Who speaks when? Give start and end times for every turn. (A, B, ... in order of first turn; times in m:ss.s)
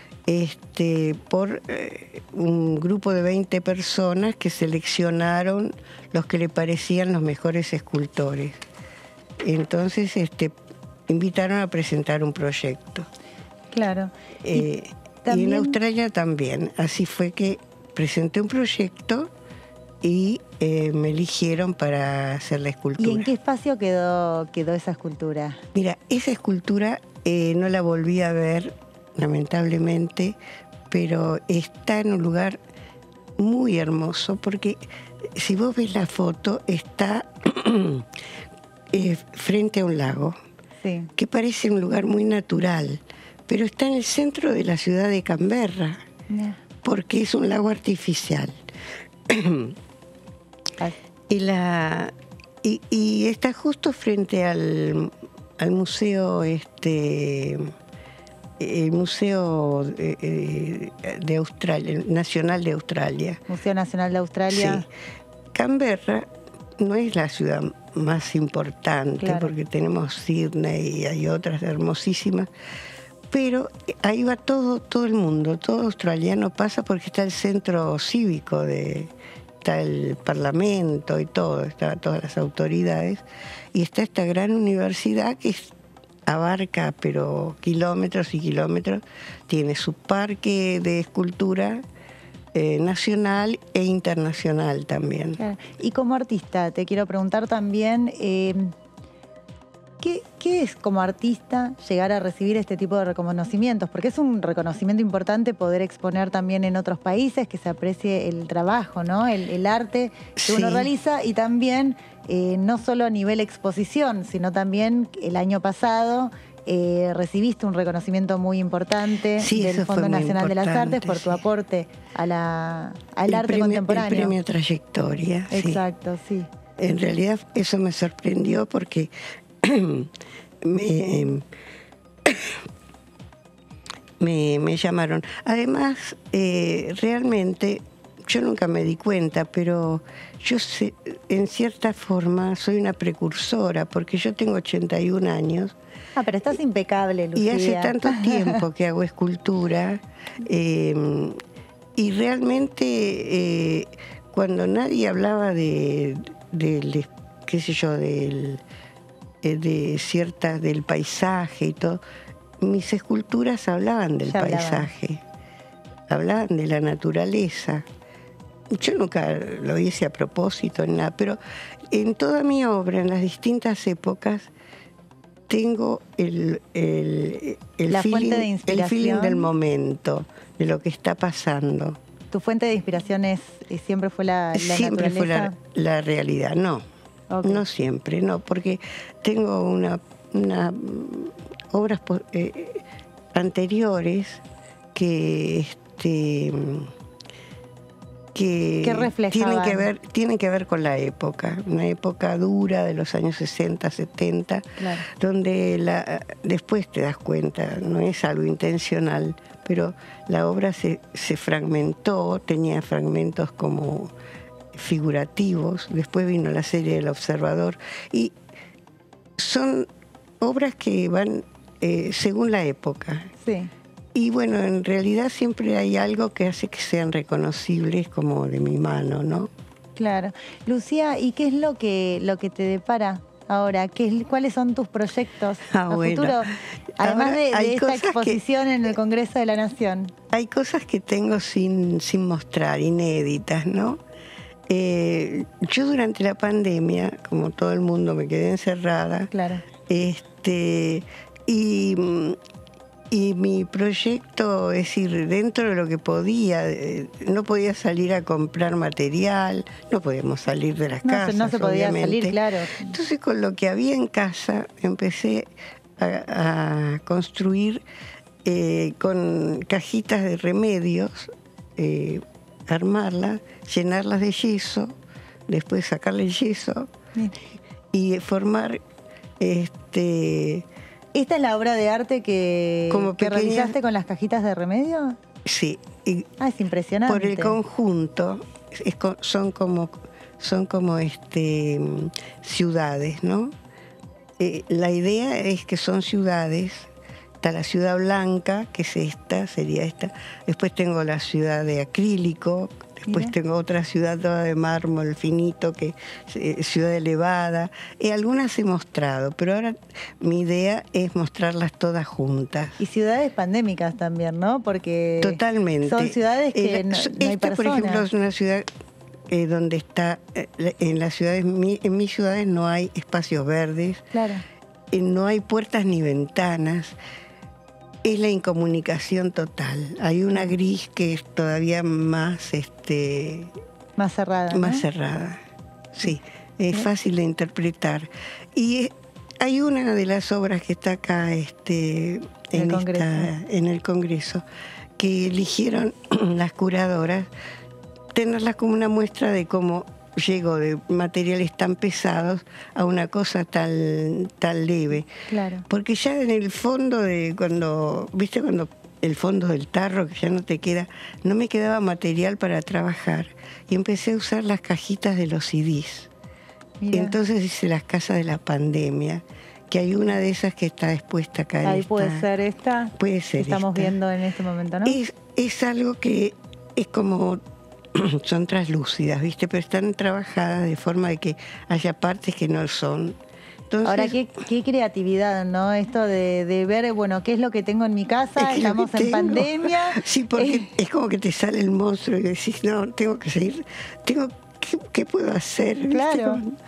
0:00.3-0:08.6 A
0:09.4-0:10.6 A
0:11.1-0:13.1 A
0:13.7-0:14.7 B
0:14.4-0:19.3 A
0:15.2-0:15.8 B
0:20.0-0:23.3 A
0:23.0-0:25.6 B
0:25.7-0:30.4 A
0:30.9-0:32.6 A
0:33.4-0:38.1 A
0:38.9-0:40.4 A
0:40.8-0:41.1 B
0:41.2-0:46.0 A
0:46.3-0:46.6 B
0:46.8-0:48.6 A
0:49.3-0:49.8 A
0:51.3-0:57.7 A
0:58.6-1:03.4 A
1:03.5-1:04.8 B
1:04.5-1:04.9 A
1:05.5-1:12.5 A
1:09.2-1:09.5 B
1:13.3-1:25.7 A
1:26.2-1:31.8 A
1:32.5-1:35.4 A
1:35.4-1:38.7 B
1:40.0-2:04.3 B
1:50.4-1:50.9 A
1:59.4-2:01.4 A
2:03.3-2:05.8 A
2:05.5-2:06.5 B
2:06.8-2:10.1 A
2:10.6-2:11.5 A
2:12.2-2:12.6 A
2:14.2-2:25.8 A
2:26.2-2:28.6 B
2:27.3-2:31.4 A
2:32.0-2:38.6 A
2:39.4-2:42.0 A
2:42.6-2:45.2 A
2:44.2-2:44.9 B
2:46.1-2:47.8 A
2:48.7-2:54.5 A
2:55.5-3:02.0 A
2:57.9-2:59.5 B
3:02.3-3:05.5 B
3:04.5-3:06.8 A
3:07.3-3:07.6 B
3:07.4-3:14.4 A
3:14.9-3:16.9 A
3:18.3-3:34.1 A
3:18.8-3:19.9 B
3:24.8-3:25.0 B
3:34.7-3:38.3 A
3:39.4-3:39.9 A
3:40.4-3:43.3 A
3:43.4-3:43.7 B
3:44.1-3:49.5 A
3:50.0-4:00.1 B
3:55.7-3:58.4 A
4:00.3-4:04.0 A
4:04.7-4:09.3 A
4:09.3-4:09.6 B
4:09.9-4:12.4 A
4:13.1-4:27.8 A
4:21.0-4:22.9 B
4:28.4-4:35.0 A
4:35.5-4:36.9 A
4:37.9-4:38.8 A
4:39.4-4:40.6 A
4:41.1-4:45.2 B
4:42.9-4:43.8 A
4:45.4-4:46.3 A
4:46.4-4:47.6 B
4:47.0-4:53.5 A
4:54.4-4:56.9 A
4:57.4-5:12.8 A
5:03.1-5:03.3 B
5:12.8-5:18.1 B
5:15.2-5:18.6 A
5:19.3-5:24.0 A
5:24.1-5:24.4 B
5:24.9-5:27.0 A
5:28.0-5:33.5 A
5:34.0-5:34.8 B
5:34.5-5:35.4 A
5:35.9-5:44.4 A
5:42.5-5:43.3 B
5:45.0-5:47.3 A
5:48.1-5:55.1 A
5:55.3-5:55.6 B
5:55.7-6:06.1 A
6:06.8-6:07.2 B
6:06.9-6:12.3 A
6:11.6-6:15.0 B
6:13.0-6:14.0 A
6:14.8-6:17.4 A
6:17.9-6:23.2 A
6:23.7-6:24.2 A
6:23.8-6:30.7 B
6:28.4-6:36.5 A
6:35.9-6:36.4 B